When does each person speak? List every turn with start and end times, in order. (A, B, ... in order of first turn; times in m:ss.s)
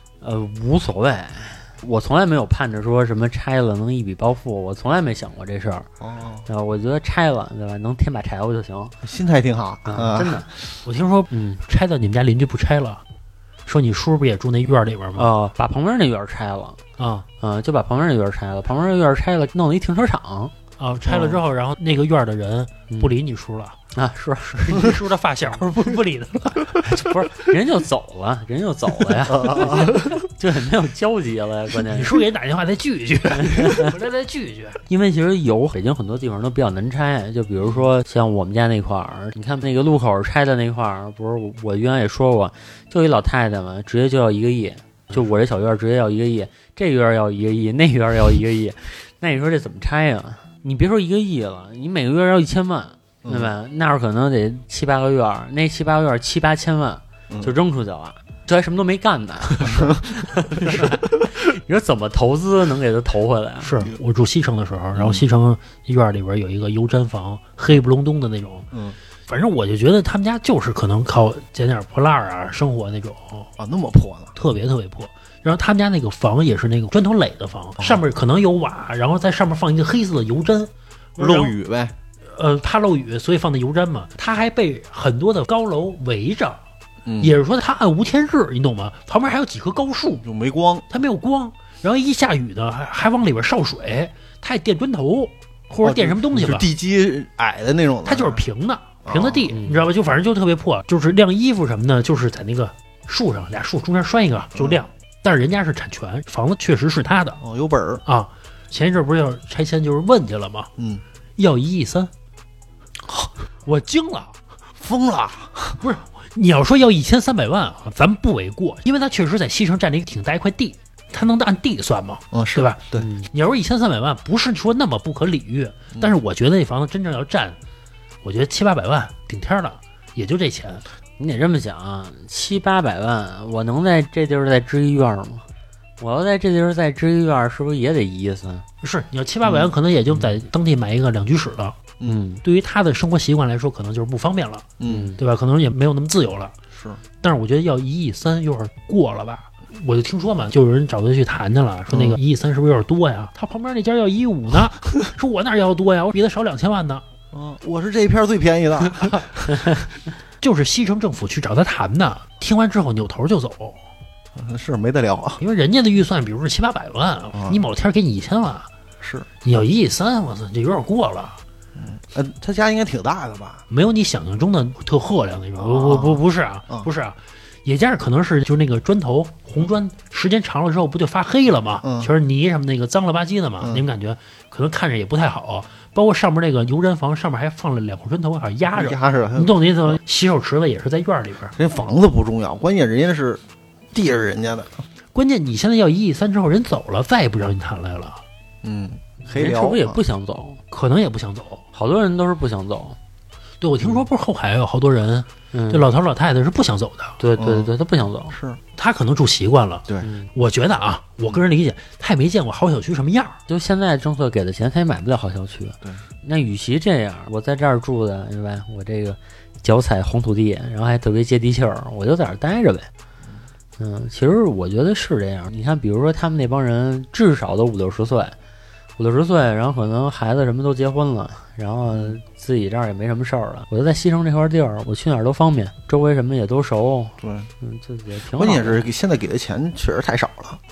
0:00.2-0:05.9 A
0:06.0-0:06.5 B
0:06.5-0:08.9 A
0:09.0-0:10.6 B
0:09.9-0:10.5 A
0:10.8-0:13.0 C
0:11.3-0:11.6 A
0:13.7-0:15.3 C
0:15.2-0:16.8 A
0:17.0-0:17.3 C
0:17.4-0:20.5 A
0:20.8-0:23.8 C
0:21.1-0:21.4 B
0:23.9-0:24.9 A
0:24.5-0:26.8 C
0:26.8-0:32.2 A
0:29.2-0:30.2 B
0:31.9-0:34.8 C
0:33.5-0:33.9 A
0:34.9-1:03.7 A
0:53.2-0:53.5 B
0:57.3-0:57.6 B
0:59.6-1:01.2 B
1:03.6-1:08.7 C
1:05.0-1:05.2 B
1:08.7-1:09.0 B
1:09.3-1:13.5 C
1:13.6-1:14.3 B
1:14.4-1:21.6 C
1:21.2-1:21.9 B
1:22.3-1:26.6 C
1:27.0-1:27.4 B
1:27.2-1:30.2 C
1:30.2-1:30.9 B
1:30.9-1:36.7 C
1:35.8-1:38.4 B
1:38.1-1:47.4 C
1:39.0-1:39.5 B
1:39.5-1:39.8 A
1:44.6-1:44.8 B
1:47.4-1:48.0 B
1:48.0-1:50.7 C
1:50.8-1:51.0 B
1:51.4-1:52.1 C
1:53.0-1:53.3 B
1:53.6-1:54.4 C
1:54.8-1:55.8 B
1:55.8-2:07.6 C
2:02.3-2:03.1 B
2:03.0-2:03.3 A
2:08.2-2:10.8 C
2:11.2-2:15.4 A
2:16.0-2:18.6 A
2:18.8-2:21.8 C
2:19.4-2:19.7 B
2:22.0-2:22.4 A
2:22.4-2:24.7 C
2:24.8-2:25.1 B
2:24.9-2:25.2 A
2:25.2-2:26.6 C
2:26.7-2:27.0 B
2:27.2-2:37.0 C
2:31.9-2:32.2 B
2:37.3-2:39.4 B
2:39.1-2:39.8 C
2:40.4-2:43.8 C
2:44.4-2:45.4 B
2:45.4-2:48.7 C
2:47.3-2:47.6 B
2:49.0-2:49.3 B
2:49.4-2:51.4 C
2:51.8-2:53.6 B
2:53.7-3:11.6 C
2:55.6-2:56.9 B
3:01.8-3:02.1 B
3:08.7-3:10.0 B
3:11.6-3:13.4 B
3:13.9-3:14.8 B
3:15.1-3:18.2 C
3:18.6-3:20.0 B
3:19.3-3:20.6 A
3:20.7-3:21.6 C
3:21.7-3:23.0 A
3:23.6-3:27.2 C
3:25.5-3:25.9 A
3:27.2-3:28.4 A
3:27.4-3:27.7 B
3:28.3-3:28.6 B
3:28.8-3:33.4 C
3:30.0-3:30.3 A
3:33.5-3:42.9 A
3:43.8-3:48.3 A
3:49.0-3:58.9 A
3:57.2-3:57.5 B
3:58.3-4:00.6 B